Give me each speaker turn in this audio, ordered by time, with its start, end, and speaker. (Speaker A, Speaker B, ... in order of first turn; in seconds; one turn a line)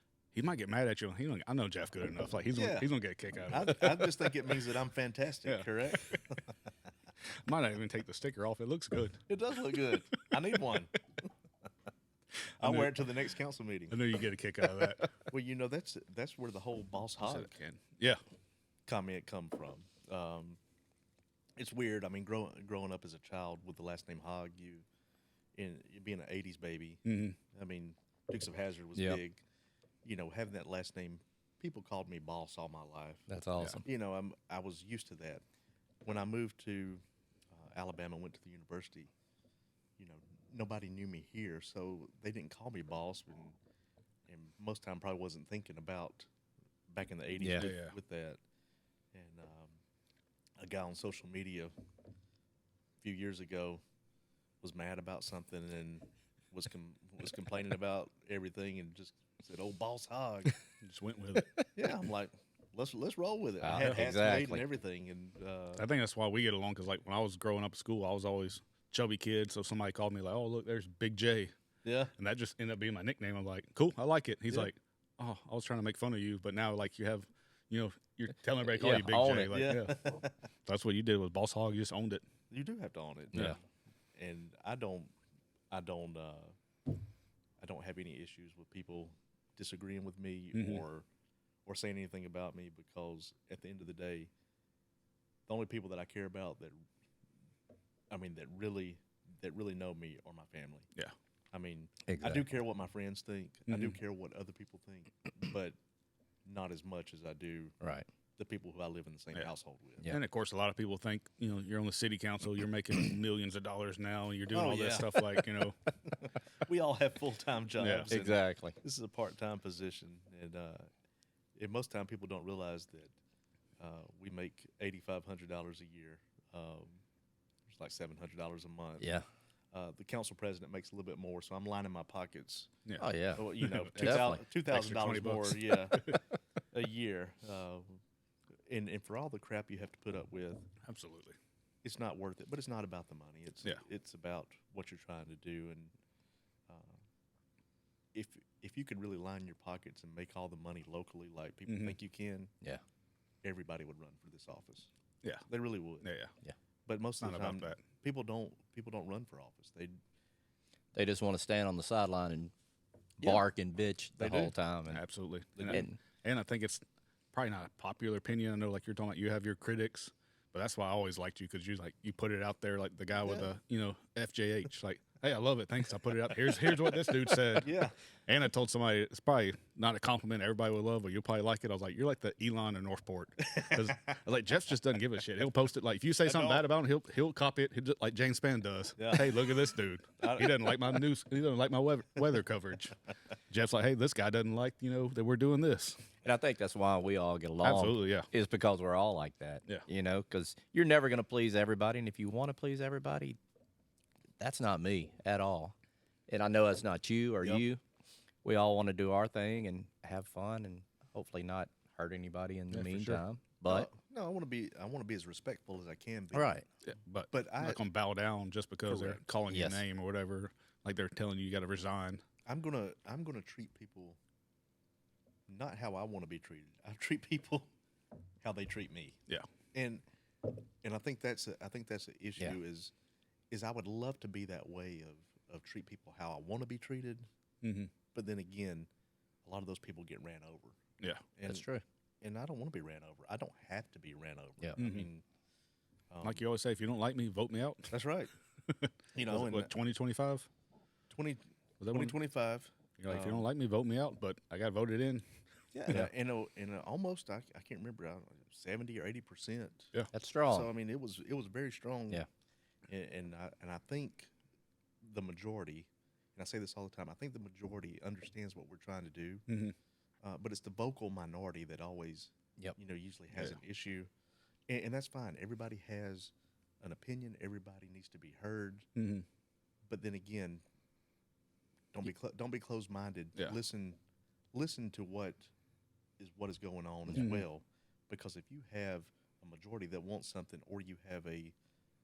Speaker A: 0.3-4.0
Speaker B: 2.5-2.9
Speaker B: 3.5-6.5
Speaker A: 5.4-6.2
Speaker A: 7.4-9.2
Speaker B: 9.3-11.0
Speaker B: 12.6-14.0
Speaker A: 12.6-12.9
Speaker A: 13.9-15.1
Speaker B: 15.1-17.5
Speaker A: 17.2-18.2
Speaker B: 18.9-20.6
Speaker B: 21.6-24.8
Speaker B: 25.5-27.0
Speaker A: 27.0-27.4
Speaker B: 27.5-29.4
Speaker C: 28.9-29.2
Speaker B: 30.0-33.3
Speaker C: 33.3-33.8
Speaker B: 33.8-35.4
Speaker B: 36.0-37.0
Speaker B: 37.5-39.1
Speaker B: 40.0-43.6
Speaker B: 44.3-46.3
Speaker B: 46.9-48.4
Speaker C: 47.4-47.7
Speaker A: 47.6-48.0
Speaker B: 49.1-49.8
Speaker B: 50.6-51.7
Speaker B: 53.0-53.8
Speaker B: 54.6-60.6
Speaker A: 60.8-61.5
Speaker B: 61.7-65.9
Speaker C: 63.6-64.6
Speaker A: 63.8-64.1
Speaker A: 65.8-71.5
Speaker B: 71.8-72.1
Speaker A: 72.2-82.2
Speaker C: 78.6-79.6
Speaker B: 79.5-80.3
Speaker B: 82.5-83.6
Speaker C: 83.3-83.6
Speaker B: 84.2-85.1
Speaker B: 85.7-86.5
Speaker B: 87.6-91.1
Speaker A: 90.5-90.8
Speaker B: 91.7-94.3
Speaker B: 95.5-96.8
Speaker B: 98.1-100.9
Speaker B: 101.5-105.8
Speaker C: 102.1-102.4
Speaker A: 103.7-104.0
Speaker B: 106.5-107.8
Speaker C: 107.8-108.1
Speaker B: 108.4-110.1
Speaker A: 110.1-115.8
Speaker B: 114.5-115.5
Speaker B: 116.1-120.9
Speaker A: 117.8-118.1
Speaker C: 118.1-118.8
Speaker B: 121.6-123.1
Speaker B: 123.8-127.0
Speaker B: 127.7-129.1
Speaker C: 129.0-129.2
Speaker B: 129.7-132.7
Speaker A: 132.8-136.2
Speaker C: 133.0-134.4
Speaker B: 133.3-136.2
Speaker B: 136.7-138.0
Speaker B: 138.7-140.7
Speaker A: 140.8-141.3
Speaker B: 141.8-145.9
Speaker B: 146.7-147.0
Speaker B: 148.1-152.5
Speaker A: 151.7-152.0
Speaker B: 153.4-154.9
Speaker B: 155.5-156.1
Speaker A: 156.0-156.3
Speaker B: 156.8-160.0
Speaker A: 157.2-157.8
Speaker C: 160.9-162.5
Speaker B: 163.2-163.5
Speaker C: 163.2-165.0
Speaker B: 164.2-164.5
Speaker A: 164.9-192.9
Speaker B: 165.6-165.8
Speaker C: 165.7-166.0
Speaker B: 177.5-177.9
Speaker B: 186.2-186.7
Speaker B: 189.0-189.6
Speaker B: 190.2-191.0
Speaker A: 193.5-196.1
Speaker C: 196.2-203.4
Speaker A: 197.6-198.3
Speaker C: 204.4-205.7
Speaker C: 206.3-207.8
Speaker C: 208.4-213.9
Speaker A: 212.7-213.2
Speaker B: 213.7-216.6
Speaker C: 216.3-216.7
Speaker A: 216.9-222.2
Speaker B: 217.3-217.8
Speaker C: 218.9-219.8
Speaker B: 222.4-224.2
Speaker B: 225.5-227.7
Speaker B: 228.4-229.2
Speaker B: 229.7-230.0
Speaker B: 230.8-232.9
Speaker B: 233.5-237.3
Speaker A: 237.6-237.9
Speaker B: 238.1-238.9
Speaker B: 239.4-240.8
Speaker B: 241.3-241.7
Speaker C: 241.4-241.8
Speaker B: 242.2-245.2
Speaker A: 244.8-245.1
Speaker B: 246.1-246.5
Speaker A: 246.2-247.9
Speaker B: 247.9-248.3
Speaker A: 248.7-250.5
Speaker B: 249.1-249.7
Speaker B: 251.1-253.5
Speaker A: 251.8-252.2
Speaker A: 253.0-255.2
Speaker B: 255.7-259.9
Speaker C: 260.1-260.7
Speaker B: 260.5-262.2
Speaker B: 262.9-264.3
Speaker B: 265.0-269.4
Speaker A: 269.5-269.8
Speaker B: 270.2-274.1
Speaker B: 274.7-278.9
Speaker A: 278.9-279.2
Speaker B: 279.9-280.6
Speaker B: 281.9-284.0
Speaker B: 284.5-285.5
Speaker B: 286.2-291.6
Speaker C: 287.1-287.4
Speaker A: 287.1-287.4